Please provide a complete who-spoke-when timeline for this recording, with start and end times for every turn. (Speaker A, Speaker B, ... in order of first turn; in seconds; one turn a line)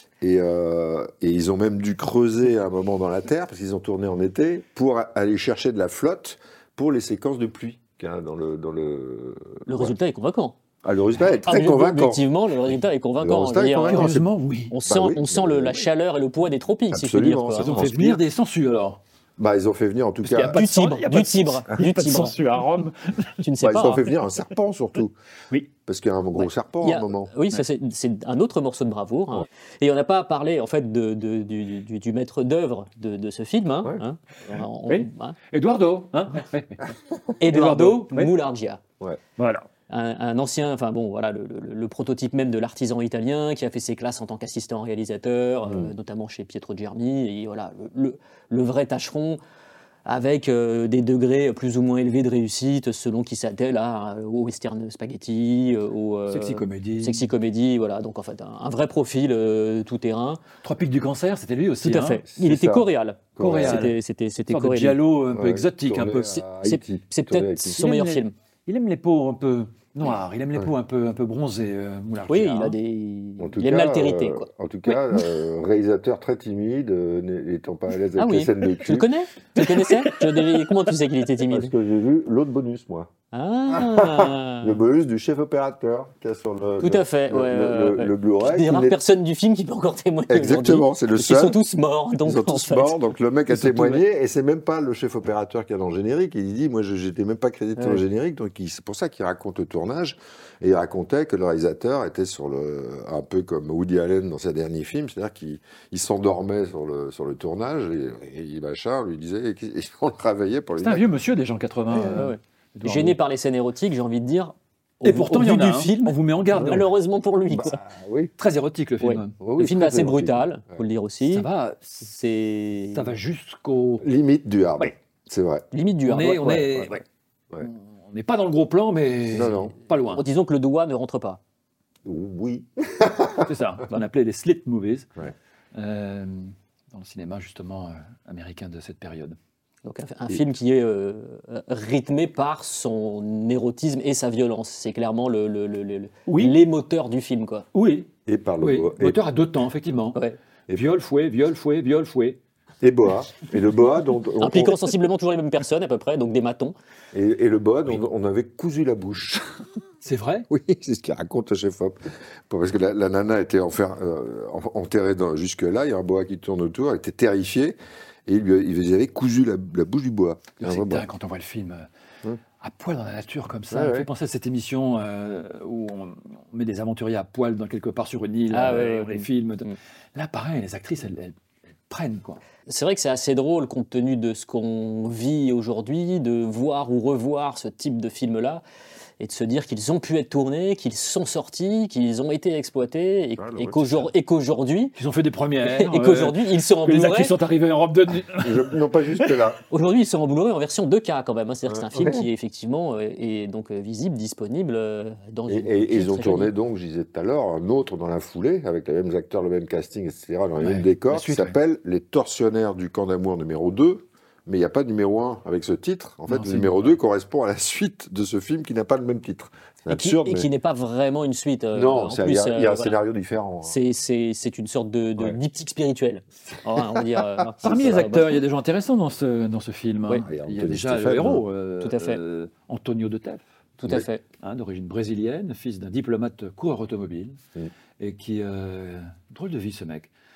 Speaker A: 0.2-9.9
Speaker B: 9.7-10.6
Speaker A: 10.8-12.3
Speaker B: 11.4-14.1
Speaker A: 13.2-14.3
Speaker C: 13.9-14.7
Speaker B: 14.7-17.7
Speaker A: 14.8-15.8
Speaker A: 16.9-18.2
Speaker C: 17.6-19.0
Speaker A: 19.4-20.6
Speaker C: 20.2-23.4
Speaker B: 20.5-22.4
Speaker B: 23.4-24.1
Speaker A: 23.6-25.1
Speaker A: 25.9-27.3
Speaker B: 26.4-35.4
Speaker C: 34.9-36.9
Speaker C: 37.4-38.3
Speaker B: 37.4-38.8
Speaker C: 39.4-39.7
Speaker B: 39.9-49.4
Speaker A: 45.6-45.9
Speaker B: 50.0-60.4
Speaker C: 56.3-57.3
Speaker C: 60.6-62.2
Speaker B: 61.8-65.0
Speaker A: 62.3-63.9
Speaker C: 63.4-64.0
Speaker C: 64.5-66.4
Speaker A: 65.3-67.7
Speaker B: 66.6-68.3
Speaker C: 67.6-72.8
Speaker B: 72.3-74.5
Speaker A: 73.4-79.1
Speaker B: 78.2-81.7
Speaker C: 79.6-80.9
Speaker A: 81.5-83.1
Speaker B: 83.3-84.8
Speaker A: 83.7-89.0
Speaker B: 86.8-93.0
Speaker A: 90.3-91.6
Speaker A: 92.2-111.1
Speaker B: 93.5-94.0
Speaker B: 97.8-98.0
Speaker C: 110.8-113.2
Speaker B: 112.0-117.8
Speaker A: 112.0-112.3
Speaker C: 115.0-116.9
Speaker A: 117.5-118.3
Speaker C: 118.4-119.4
Speaker B: 119.0-121.4
Speaker A: 119.4-120.8
Speaker C: 121.2-122.1
Speaker B: 122.0-123.1
Speaker C: 122.9-124.0
Speaker A: 124.0-125.7
Speaker B: 125.7-126.9
Speaker C: 126.0-127.0
Speaker A: 126.5-126.9
Speaker C: 127.6-130.2
Speaker A: 129.3-129.7
Speaker B: 130.1-131.4
Speaker A: 132.0-133.5
Speaker C: 133.4-135.1
Speaker C: 135.7-139.3
Speaker B: 139.8-147.6
Speaker C: 146.3-146.6
Speaker C: 147.7-148.1
Speaker A: 148.3-149.2
Speaker C: 148.6-150.2
Speaker C: 150.7-152.4
Speaker A: 152.8-154.9
Speaker B: 154.4-156.7
Speaker A: 157.1-159.6
Speaker C: 160.0-160.5
Speaker A: 160.5-162.0
Speaker A: 162.5-171.1
Speaker C: 170.6-171.9
Speaker C: 172.6-181.3
Speaker A: 173.7-174.1
Speaker B: 178.5-179.7
Speaker C: 181.9-182.4
Speaker B: 182.7-188.6
Speaker B: 189.2-194.9
Speaker A: 193.4-194.1
Speaker C: 194.9-198.8
Speaker B: 195.6-197.3
Speaker A: 198.3-199.6
Speaker B: 199.7-206.5
Speaker A: 201.7-202.3
Speaker A: 205.5-220.5
Speaker C: 210.6-211.5
Speaker C: 216.3-216.7
Speaker B: 219.9-222.9
Speaker A: 221.7-223.8
Speaker B: 223.6-228.3
Speaker A: 226.7-227.9
Speaker C: 227.6-233.4
Speaker A: 230.2-231.4
Speaker B: 231.8-232.2
Speaker B: 233.8-234.2
Speaker C: 234.4-237.4
Speaker C: 238.0-240.1